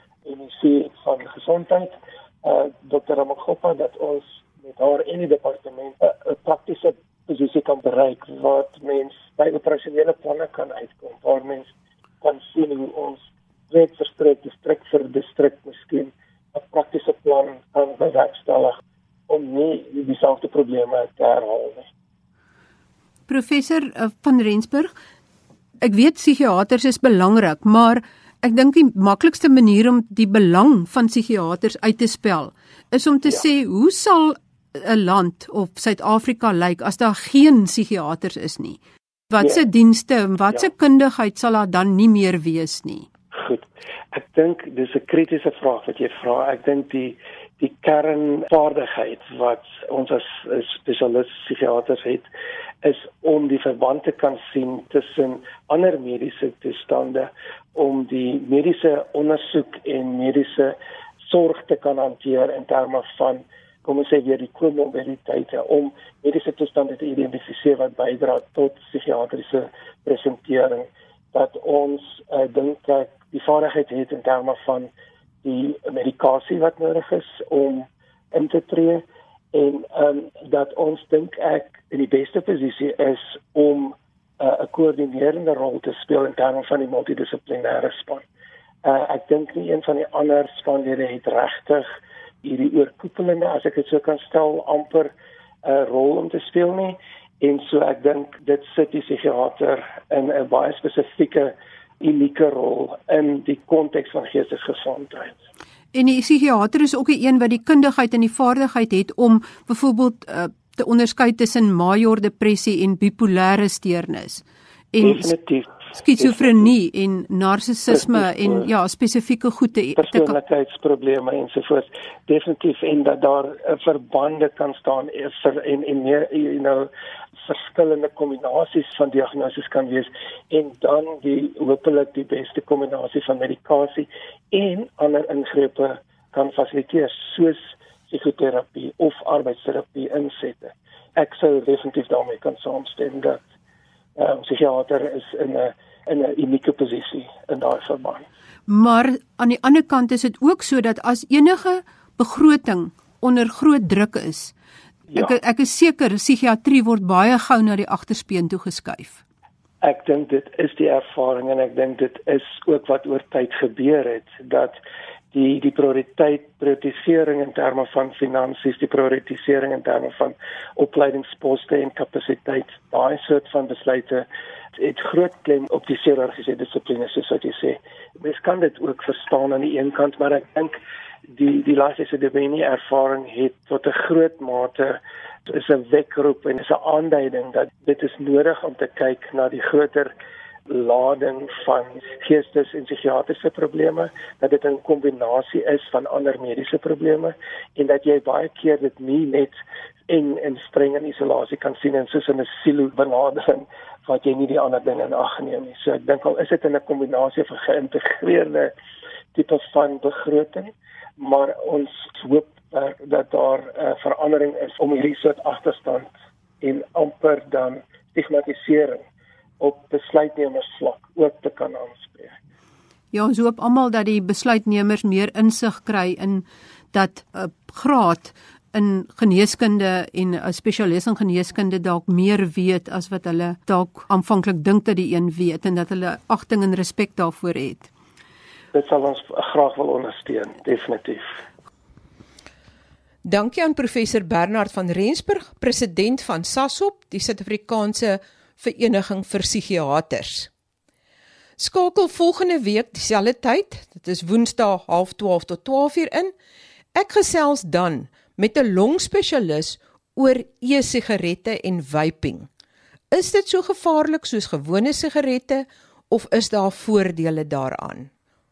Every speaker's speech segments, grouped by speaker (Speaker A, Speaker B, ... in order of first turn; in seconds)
Speaker A: 0.2-11.7, 12.2-21.9, 43.3-52.3, 52.8-74.9, 75.4-88.2, 88.8-91.8, 92.4-95.1, 95.6-105.4, 115.0-116.7, 117.9-118.7, 120.0-126.9, 127.4-143.4, 144.2-148.2, 159.8-164.8, 165.3-174.2, 174.8-180.8, 181.3-190.1, 190.7-199.6, 200.1-208.7, 209.3-216.1, 216.6-219.0, 219.6-222.4, 238.7-241.3
Speaker B: 23.3-24.9, 25.8-43.1, 105.9-115.3, 115.9-120.3, 148.7-154.5, 155.1-159.2, 223.1-237.9
Speaker C: 243.2-250.5, 251.6-256.3, 256.9-262.5, 263.1-268.1